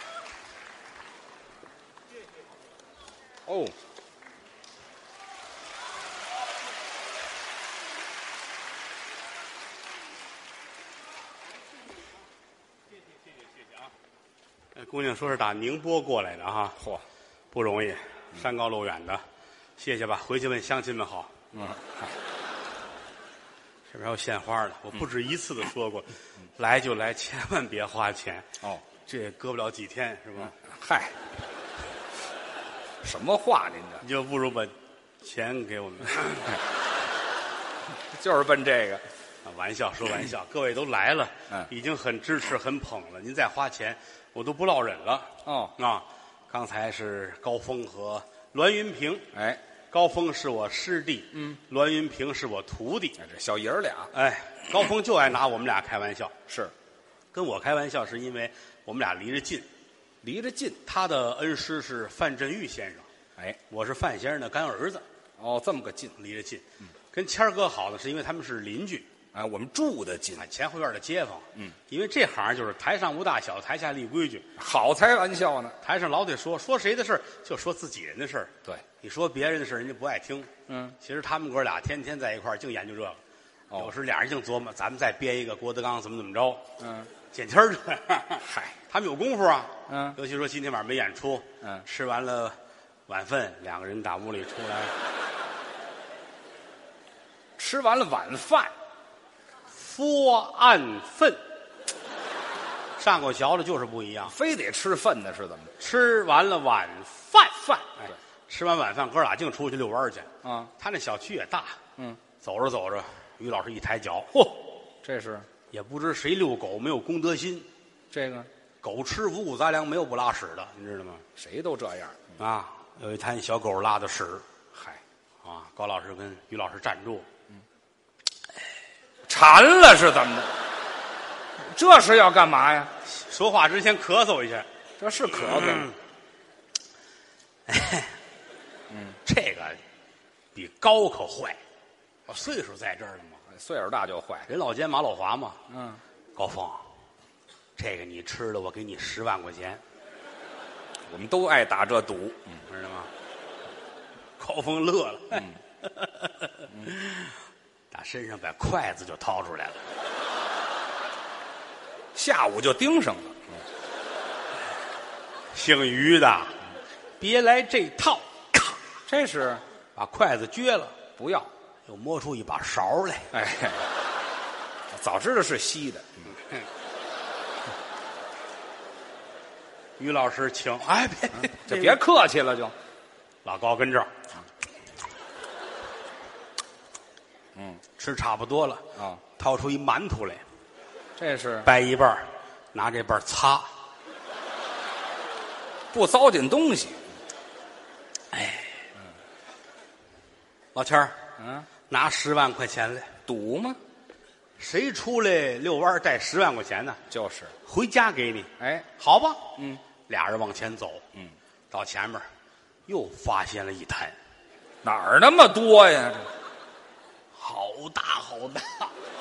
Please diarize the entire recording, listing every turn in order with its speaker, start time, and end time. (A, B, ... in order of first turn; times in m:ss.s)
0:03.4-0:03.7 A
0:14.7-0:16.8 B
0:17.5-0:19.2 B
0:19.8-0:21.3 B
0:21.5-0:22.1 A
0:23.9-0:28.5 B
0:29.0-0:30.5 B
0:30.5-0:31.1 A
0:33.0-0:34.0 A
0:34.0-0:36.6 B
0:38.1-0:39.0 A
0:39.4-0:49.2 B
0:45.4-0:45.7 A
0:49.3-0:49.6 A
0:49.9-0:53.2 B
0:53.2-0:54.1 A
0:54.1-0:56.3 B
0:56.5-0:56.7 A
0:57.3-0:59.6 B
1:00.2-1:00.8 A
1:00.8-1:03.1 B
1:03.7-1:05.0 B
1:05.4-1:06.2 A
1:06.2-1:09.1 B
1:09.3-1:10.4 A
1:10.4-1:14.4 B
1:14.6-1:15.8 A
1:15.8-1:23.2 B
1:20.7-1:21.0 A
1:23.7-1:26.6 B
1:26.8-1:27.1 A
1:27.3-1:32.6 B
1:28.4-1:28.8 A
1:29.9-1:30.2 A
1:33.1-1:34.9 B
1:37.6-1:38.7 A
1:39.7-1:41.4 B
1:43.0-1:44.3 B
1:44.3-1:45.7 A
1:45.8-1:51.8 B
1:50.4-1:50.7 A
1:52.4-1:54.6 B
1:55.0-1:55.5 A
1:55.7-1:57.7 B
1:58.1-1:58.5 A
1:58.8-2:01.2 B
2:01.4-2:02.2 A
2:02.4-2:04.4 B
2:04.7-2:05.0 A
2:05.4-2:07.3 B
2:09.3-2:10.5 A
2:11.6-2:12.9 A
2:13.1-2:14.6 B
2:15.0-2:15.9 A
2:15.5-2:15.9 B
2:17.7-2:18.1 B
2:18.9-2:19.2 A
2:19.2-2:19.8 B
2:20.5-2:21.6 B
2:22.3-2:23.4 B
2:23.5-2:24.5 A
2:24.5-2:25.6 B
2:25.7-2:26.0 A
2:26.4-2:26.8 B
2:27.8-2:29.8 B
2:31.1-2:32.6 A
2:32.7-2:33.1 B
2:34.4-2:37.3 B
2:37.9-2:39.8 B
2:42.1-2:43.6 A
2:45.5-2:46.6 B
2:47.2-2:48.8 B
2:49.1-2:49.6 A
2:50.0-2:51.0 B
2:51.2-2:51.5 A
2:51.8-2:53.3 B
2:53.3-2:53.9 A
2:54.9-2:56.3 A
3:00.0-3:02.0 B
3:01.4-3:02.7 A
3:03.4-3:04.1 B
3:07.5-3:07.8 A
3:08.0-3:10.4 B
3:09.0-3:09.2 A
3:11.2-3:11.7 A
3:11.6-3:13.7 B
3:15.9-3:17.0 A
3:18.3-3:18.7 B
3:20.7-3:21.2 B
3:21.4-3:21.7 A
3:21.9-3:23.1 B
3:23.3-3:23.8 A
3:24.6-3:27.0 B
3:27.1-3:27.5 A
3:27.6-3:29.5 B
3:28.6-3:28.9 A
3:29.6-3:29.8 A
3:30.1-3:31.0 B
3:31.7-3:32.2 B
3:32.9-3:34.1 B
3:34.8-3:36.3 A
3:37.4-3:38.9 B